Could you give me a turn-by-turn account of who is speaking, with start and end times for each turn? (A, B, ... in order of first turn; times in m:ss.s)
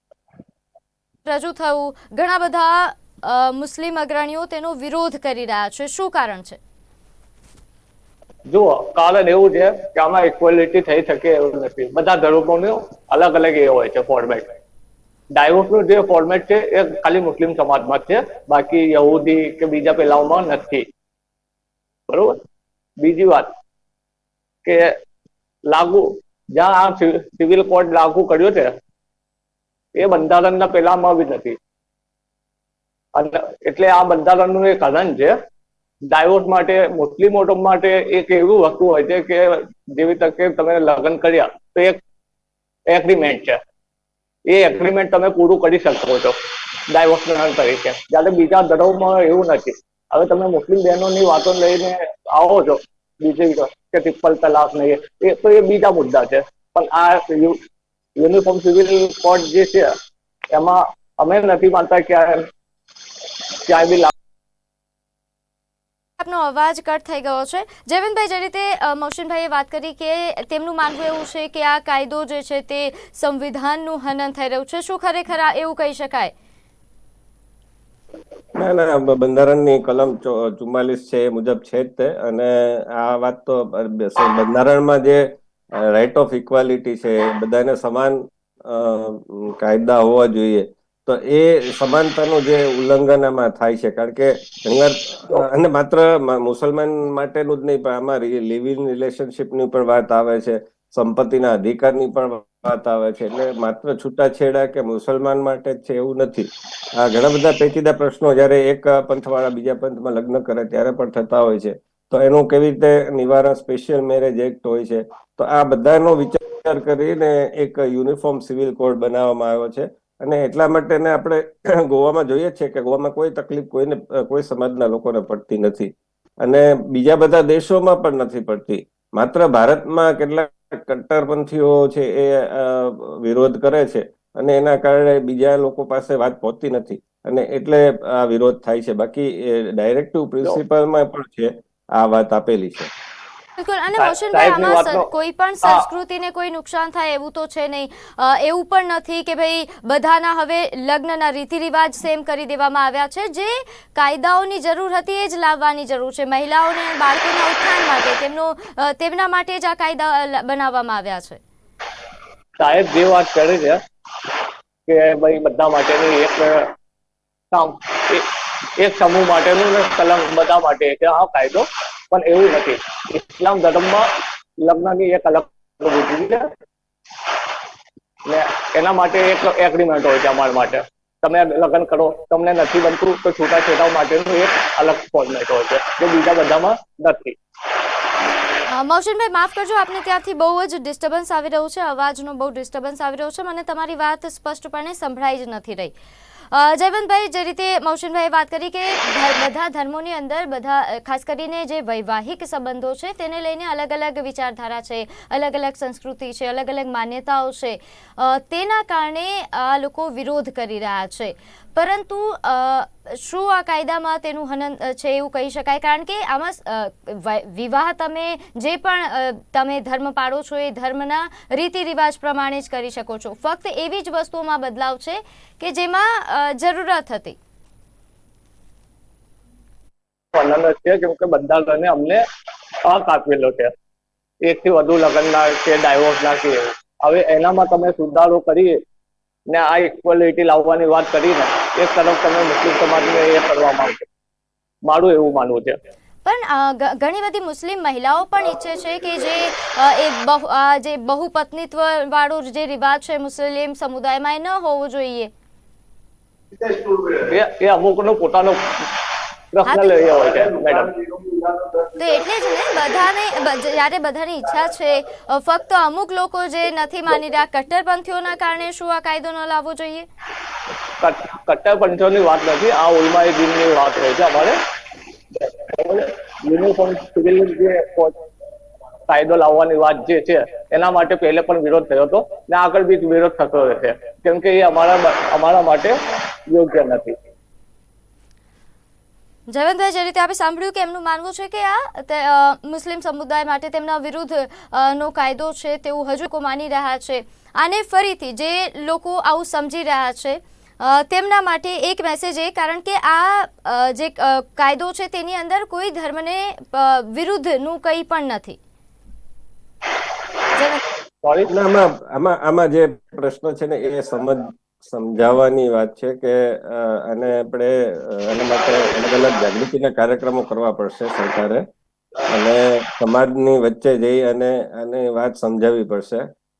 0:01.2-0:06.6 A
0:08.5-0:14.5 B
0:15.3-0:20.8 B
0:22.1-0:22.4 B
0:23.0-0:23.5 B
0:24.6-0:25.0 B
0:25.7-0:28.7 B
0:30.0-0:31.6 B
0:33.1-0:35.4 B
0:36.1-0:42.0 B
0:42.9-0:43.6 B
0:44.5-0:46.4 B
0:46.9-0:57.6 B
0:58.2-0:59.9 B
1:00.5-1:02.5 B
1:03.6-1:04.1 B
1:06.2-1:16.3 A
1:18.6-2:22.9 C
2:23.6-2:41.4 A
2:24.0-2:25.1 B
2:42.6-2:43.8 B
2:44.9-2:46.7 B
2:47.5-2:56.5 B
2:58.2-3:07.4 B
3:08.7-3:15.9 A
3:16.5-3:47.4 A
3:50.3-3:52.2 B
3:52.8-3:53.7 B
3:54.4-3:58.8 B
3:59.5-4:04.0 B
4:04.8-4:05.8 B
4:06.2-4:15.3 A
4:17.0-4:18.9 B
4:19.5-4:21.2 B
4:19.6-4:20.0 A
4:22.0-4:30.1 A
4:31.0-4:34.6 B
4:35.4-4:38.2 B
4:39.1-4:47.2 B
4:49.5-5:08.6 A
5:10.5-5:10.8 A
5:11.2-5:11.5 B
5:11.5-5:21.6 C
5:22.3-5:26.3 C